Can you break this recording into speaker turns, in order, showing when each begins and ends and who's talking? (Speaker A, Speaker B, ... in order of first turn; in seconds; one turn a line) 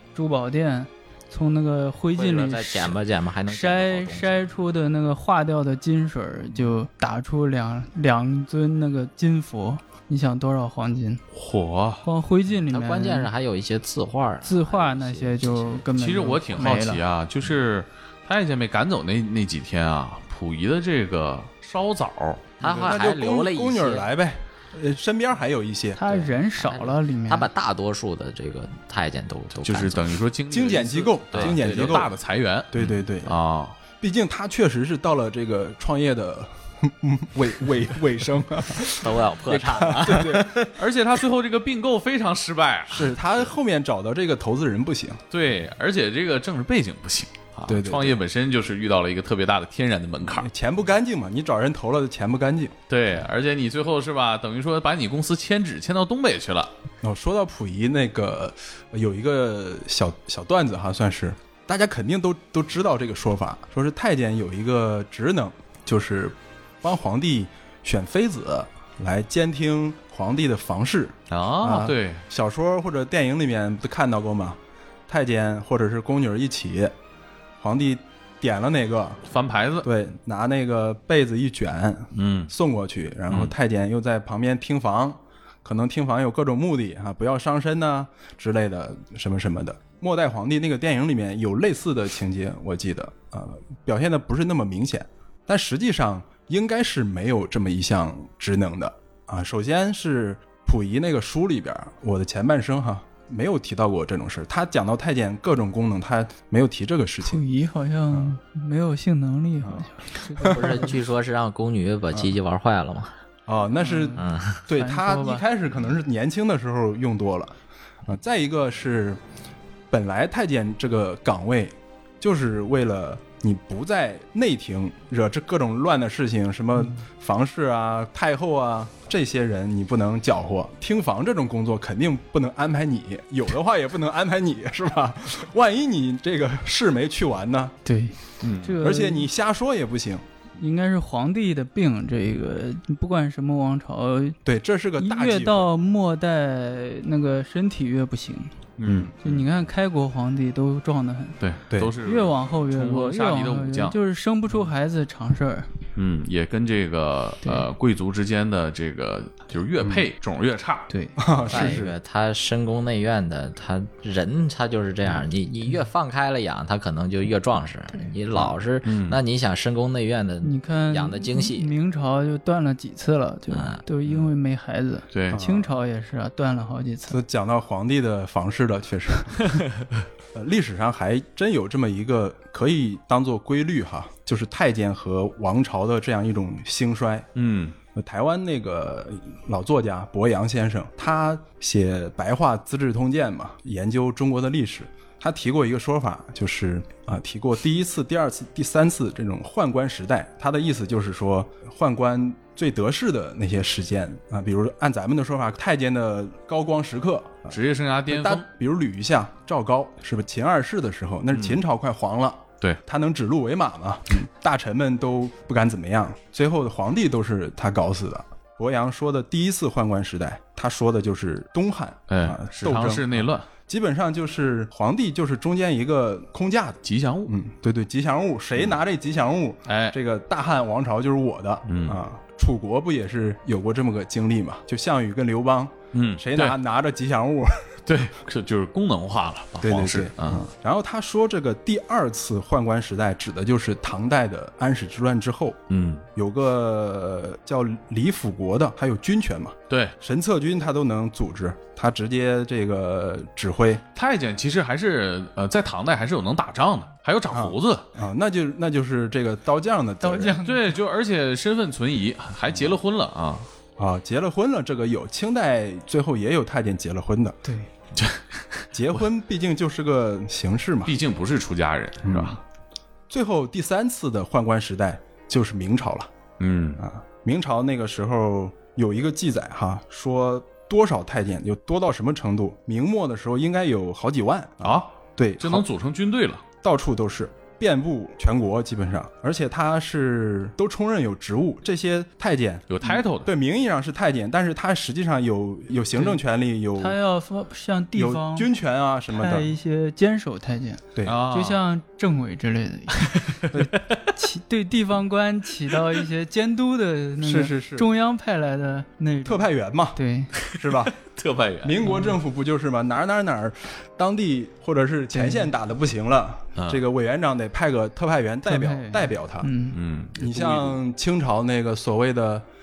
Speaker A: 0.1-11.2
Speaker B: 2.1-4.3
Speaker C: 11.3-12.0
Speaker A: 12.0-13.3
Speaker B: 12.7-15.8
Speaker A: 14.4-17.0
Speaker C: 15.9-22.5
Speaker B: 22.6-24.1
Speaker D: 22.6-26.0
Speaker A: 25.9-27.5
Speaker B: 26.0-30.1
Speaker C: 29.6-33.7
Speaker D: 30.5-32.1
Speaker B: 31.3-32.0
Speaker D: 32.7-33.3
Speaker D: 34.0-40.7
Speaker B: 38.9-40.7
Speaker C: 40.7-43.2
Speaker D: 42.9-45.2
Speaker C: 45.3-50.5
Speaker D: 47.6-48.2
Speaker D: 50.2-52.7
Speaker C: 52.9-56.7
Speaker D: 57.0-76.9
Speaker C: 71.3-72.2
Speaker D: 77.6-79.2
Speaker C: 79.3-79.9
Speaker D: 79.8-107.4
Speaker C: 82.1-82.5
Speaker A: 107.2-110.9
Speaker D: 109.6-110.9
Speaker B: 110.4-113.1
Speaker D: 113.5-117.5
Speaker A: 113.8-115.5
Speaker B: 114.2-114.6
Speaker D: 118.1-119.2
Speaker D: 119.9-137.7
Speaker A: 137.8-139.3
Speaker C: 138.4-138.8
Speaker D: 138.8-140.2
Speaker A: 140.6-144.4
Speaker D: 144.4-145.7
Speaker A: 145.0-148.5
Speaker C: 148.8-149.4
Speaker D: 148.8-149.1
Speaker A: 149.2-151.4
Speaker C: 151.4-153.9
Speaker A: 152.0-155.7
Speaker C: 155.9-160.9
Speaker A: 160.9-161.2
Speaker D: 161.2-161.9
Speaker B: 161.5-171.7
Speaker C: 168.8-169.2
Speaker A: 170.4-177.2
Speaker B: 173.5-173.8
Speaker C: 175.1-175.4
Speaker D: 175.3-175.7
Speaker D: 177.1-179.6
Speaker D: 180.3-187.3
Speaker C: 187.3-187.7
Speaker D: 187.9-237.8
Speaker C: 207.5-208.4
Speaker C: 211.3-211.6
Speaker C: 222.1-223.5
Speaker C: 226.8-227.3
Speaker C: 229.7-229.9
Speaker C: 231.7-232.0
Speaker C: 235.9-236.6
Speaker C: 237.9-240.5
Speaker D: 239.6-245.6
Speaker C: 245.7-246.0
Speaker D: 246.1-253.8
Speaker C: 249.7-249.9
Speaker C: 253.9-257.8
Speaker D: 257.3-260.3
Speaker A: 260.0-260.7
Speaker C: 260.4-263.4
Speaker D: 263.8-267.4
Speaker C: 267.9-268.6
Speaker D: 268.7-270.9
Speaker C: 270.9-272.4
Speaker D: 272.0-272.4
Speaker D: 273.1-276.1
Speaker C: 276.4-276.8
Speaker D: 276.8-285.6
Speaker C: 284.6-286.4
Speaker D: 286.6-297.0
Speaker C: 292.7-293.3
Speaker A: 296.8-298.5
Speaker D: 297.9-299.5
Speaker A: 299.1-303.4
Speaker C: 301.0-301.6
Speaker C: 303.0-304.0
Speaker D: 303.5-303.8
Speaker A: 304.1-310.3
Speaker D: 307.2-307.9
Speaker D: 309.2-310.0
Speaker C: 310.4-311.9
Speaker D: 310.5-310.9
Speaker D: 311.6-319.5
Speaker A: 311.8-312.2
Speaker A: 315.1-315.5
Speaker C: 316.6-316.8
Speaker A: 318.4-319.8
Speaker C: 319.7-320.8
Speaker D: 320.1-322.4